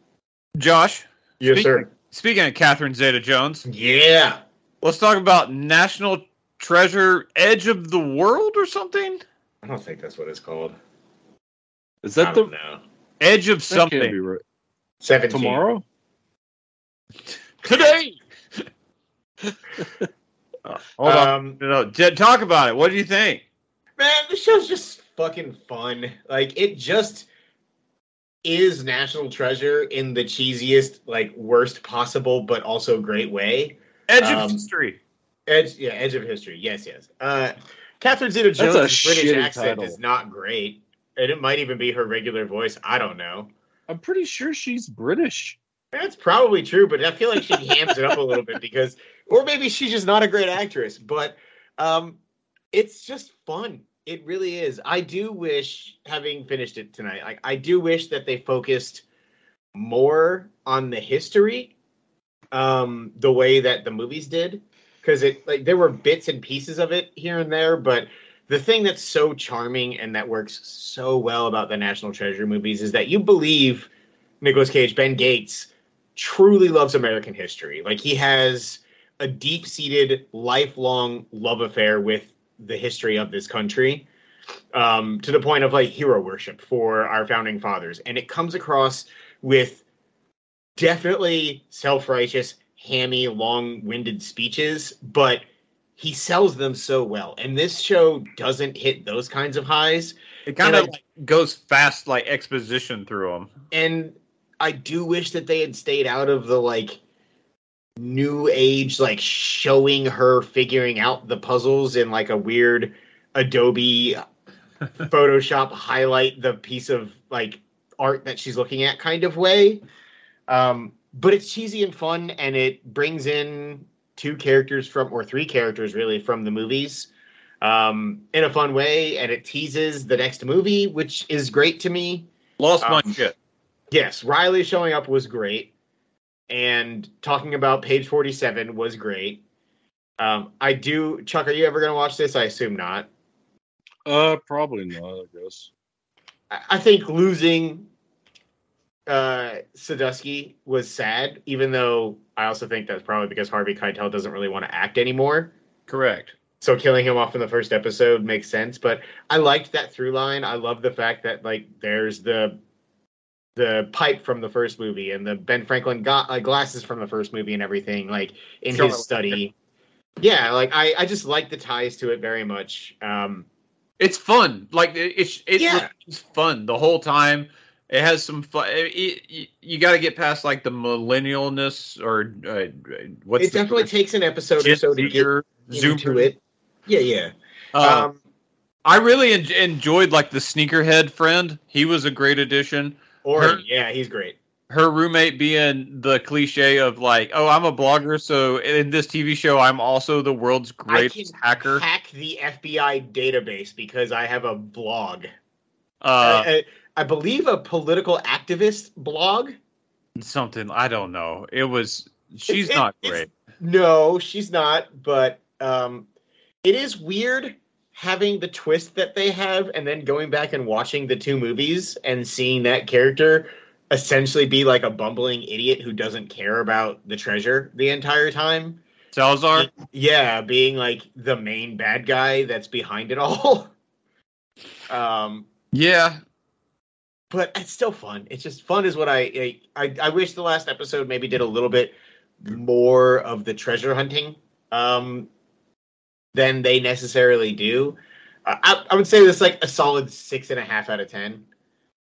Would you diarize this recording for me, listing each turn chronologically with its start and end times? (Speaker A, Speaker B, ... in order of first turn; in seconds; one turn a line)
Speaker A: 0.6-3.7
Speaker B: 1.4-1.9
Speaker B: 3.7-4.4
Speaker A: 4.8-9.2
Speaker B: 9.6-10.8
Speaker C: 12.0-12.5
Speaker B: 12.2-12.8
Speaker A: 13.2-14.2
Speaker C: 13.7-14.4
Speaker B: 15.0-15.6
Speaker C: 15.3-15.8
Speaker A: 17.6-18.2
Speaker A: 20.6-23.4
Speaker B: 21.0-21.6
Speaker B: 24.0-27.3
Speaker B: 28.4-34.6
Speaker A: 34.1-35.0
Speaker B: 35.5-43.5
Speaker C: 38.6-40.0
Speaker C: 43.9-45.6
Speaker B: 45.9-52.2
Speaker B: 52.7-59.0
Speaker B: 59.8-61.7
Speaker B: 62.5-73.9
Speaker B: 74.4-84.1
Speaker B: 84.7-89.8
Speaker B: 90.8-95.4
Speaker B: 96.0-100.9
Speaker A: 100.5-103.5
Speaker B: 103.7-107.0
Speaker B: 108.0-114.2
Speaker B: 115.0-119.8
Speaker B: 120.5-127.1
Speaker B: 127.6-132.3
Speaker A: 132.6-133.3
Speaker B: 132.8-133.2
Speaker B: 133.9-135.7
Speaker B: 136.5-139.4
Speaker B: 140.2-143.1
Speaker C: 144.1-145.7
Speaker B: 146.5-147.9
Speaker B: 149.1-155.5
Speaker A: 155.9-156.3
Speaker B: 156.6-162.6
Speaker B: 163.6-169.5
Speaker A: 168.7-169.4
Speaker B: 170.2-173.5
Speaker A: 174.0-183.9
Speaker B: 175.6-175.9
Speaker B: 183.4-188.2
Speaker A: 184.6-186.3
Speaker A: 187.8-188.1
Speaker A: 188.8-193.6
Speaker B: 193.2-194.4
Speaker A: 194.7-201.8
Speaker B: 200.9-205.3
Speaker A: 206.0-206.5
Speaker B: 206.2-209.6
Speaker A: 210.2-213.3
Speaker B: 212.5-216.1
Speaker B: 216.6-228.8
Speaker A: 229.1-229.7
Speaker B: 229.6-233.7
Speaker B: 234.9-235.5
Speaker A: 235.7-236.2
Speaker B: 237.3-245.3
Speaker B: 246.3-251.4